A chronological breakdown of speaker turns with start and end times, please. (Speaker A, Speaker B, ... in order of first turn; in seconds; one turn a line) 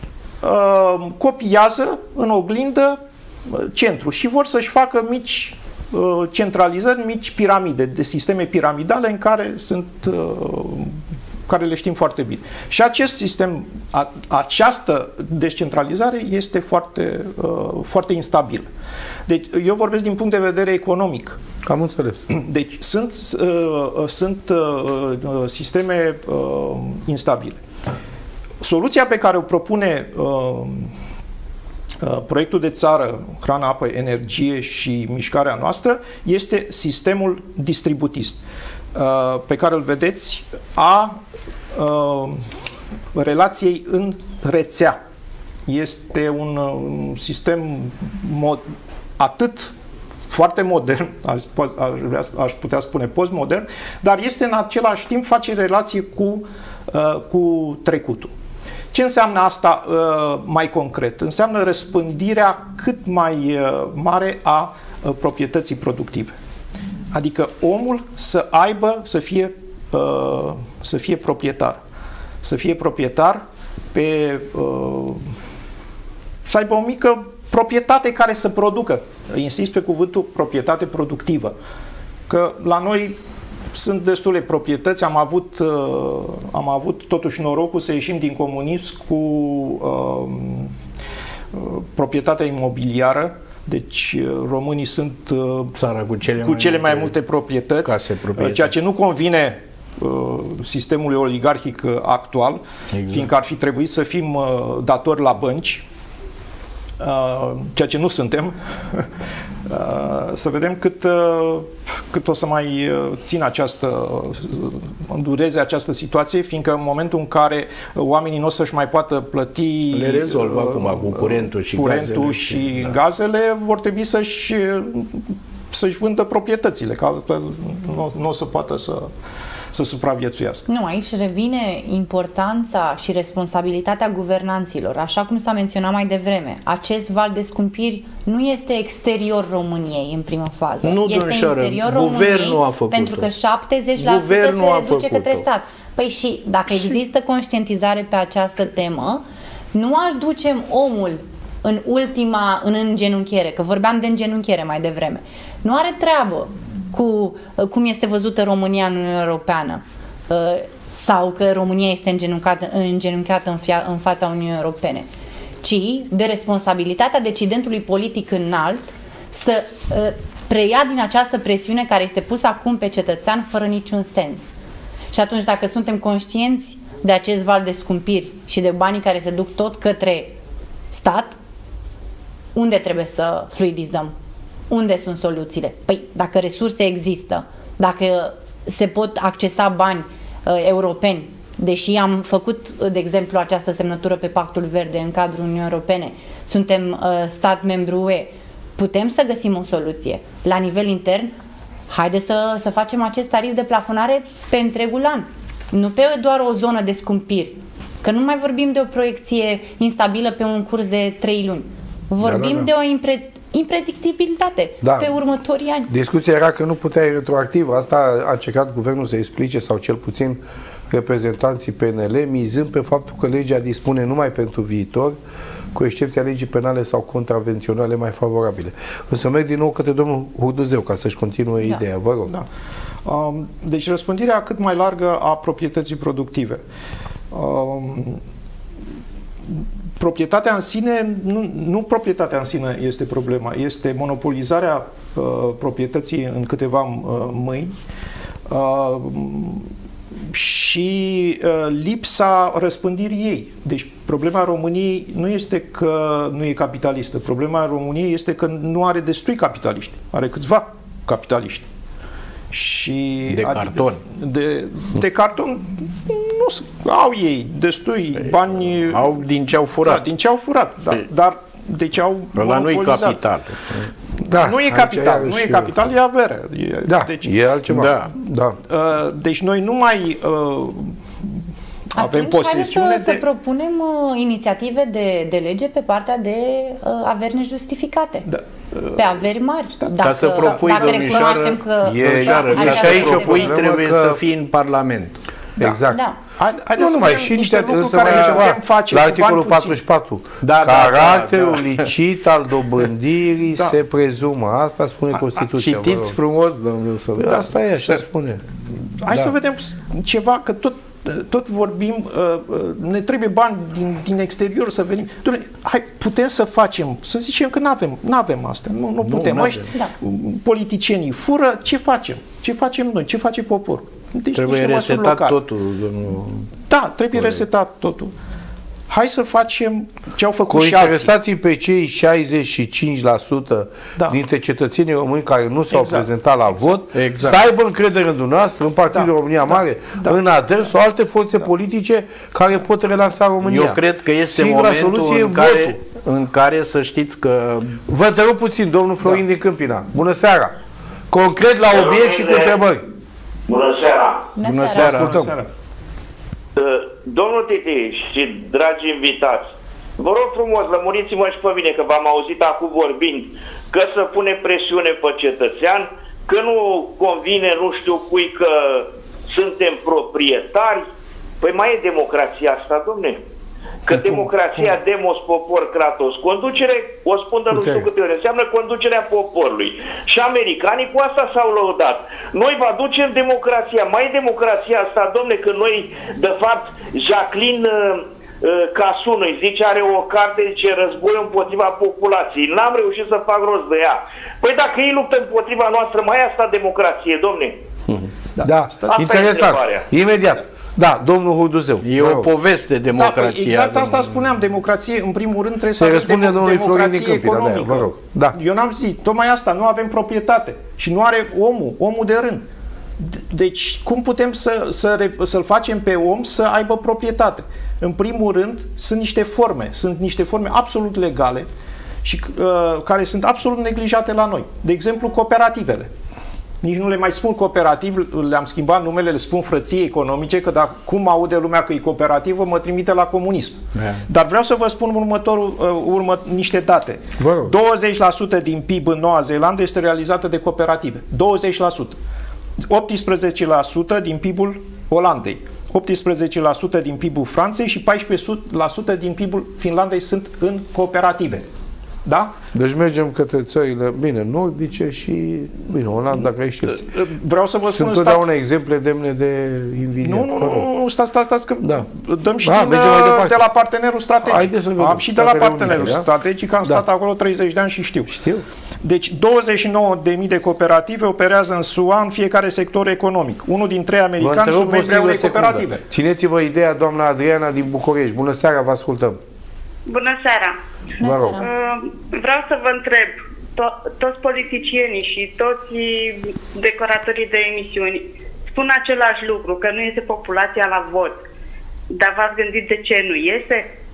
Speaker A: 0.4-10.9
Speaker A: 11.5-18.7
Speaker A: 19.3-21.4
Speaker B: 21.6-22.3
Speaker A: 22.3-27.6
Speaker A: 28.6-30.9
Speaker A: 32.0-38.4
Speaker A: 38.9-41.2
Speaker A: 41.7-42.5
Speaker A: 43.1-45.0
Speaker A: 45.6-48.6
Speaker A: 49.2-49.7
Speaker A: 50.3-58.3
Speaker A: 58.9-66.3
Speaker A: 67.1-71.8
Speaker A: 72.4-75.3
Speaker A: 76.5-81.5
Speaker A: 82.3-83.2
Speaker A: 83.7-90.7
Speaker A: 91.5-95.8
Speaker C: 95.7-97.1
Speaker A: 96.3-105.8
Speaker C: 97.8-98.7
Speaker C: 102.9-103.3
Speaker A: 107.0-109.1
Speaker A: 109.7-129.1
Speaker C: 119.9-122.9
Speaker A: 129.7-130.7
Speaker D: 130.7-165.1
Speaker C: 140.8-143.3
Speaker C: 144.0-145.4
Speaker D: 165.6-174.5
Speaker D: 175.1-180.3
Speaker D: 180.9-181.3
Speaker D: 182.5-184.1
Speaker D: 184.7-201.3
Speaker D: 201.9-215.9
Speaker B: 212.2-212.7
Speaker B: 214.8-215.1
Speaker B: 215.9-225.2
Speaker B: 225.7-232.3
Speaker A: 233.0-236.6
Speaker A: 237.3-238.2
Speaker A: 239.5-247.7
Speaker A: 248.5-249.7
Speaker A: 250.3-261.6
Speaker A: 262.5-269.2
Speaker C: 263.3-264.0
Speaker C: 268.1-270.1
Speaker A: 269.8-273.2
Speaker C: 272.3-273.9
Speaker B: 274.2-275.7
Speaker A: 274.3-277.3
Speaker B: 276.9-278.6
Speaker C: 277.7-278.1
Speaker A: 278.7-281.4
Speaker A: 281.9-283.2
Speaker D: 281.9-288.3
Speaker A: 288.2-289.2
Speaker D: 288.9-293.5
Speaker A: 289.8-291.1
Speaker C: 290.0-295.2
Speaker B: 291.8-294.2
Speaker B: 295.6-296.0
Speaker D: 295.9-296.2
Speaker A: 296.4-299.8
Speaker B: 296.7-306.1
Speaker C: 298.0-298.4
Speaker C: 300.4-301.9
Speaker C: 305.5-307.5
Speaker B: 307.2-308.4
Speaker A: 309.0-325.4
Speaker C: 319.0-319.7
Speaker C: 324.3-326.5
Speaker A: 326.7-328.1
Speaker C: 327.1-327.4
Speaker A: 328.9-331.1
Speaker B: 330.5-343.8
Speaker A: 335.7-336.1
Speaker C: 336.9-337.4
Speaker A: 338.9-340.2
Speaker C: 343.4-347.8
Speaker B: 344.3-345.8
Speaker B: 347.9-350.5
Speaker B: 351.1-352.8
Speaker E: 351.7-352.6
Speaker E: 353.5-354.3
Speaker D: 354.3-355.0
Speaker C: 354.4-355.3
Speaker A: 354.7-355.5
Speaker B: 355.0-355.3
Speaker E: 356.6-370.9
Speaker E: 371.4-373.2
Speaker E: 373.9-397.6
Speaker B: 377.5-377.9
Speaker B: 397.9-402.3
Speaker A: 398.4-398.8
Speaker E: 398.8-399.9
Speaker C: 401.8-404.2
Speaker A: 402.9-412.4
Speaker B: 405.8-408.4
Speaker A: 413.0-421.5
Speaker A: 422.0-425.9
Speaker A: 426.6-442.0
Speaker C: 433.7-434.0
Speaker B: 437.2-437.5
Speaker A: 442.6-451.5
Speaker A: 452.0-452.4
Speaker B: 452.5-456.9
Speaker A: 456.6-458.2
Speaker B: 457.7-460.7
Speaker A: 460.0-468.1
Speaker B: 461.6-461.9
Speaker B: 462.4-463.4
Speaker B: 464.2-466.1
Speaker B: 468.1-468.4
Speaker A: 468.8-475.8
Speaker B: 474.2-479.2
Speaker F: 479.9-480.6
Speaker D: 481.0-481.5
Speaker B: 481.0-481.4
Speaker F: 481.4-491.2
Speaker F: 491.9-493.7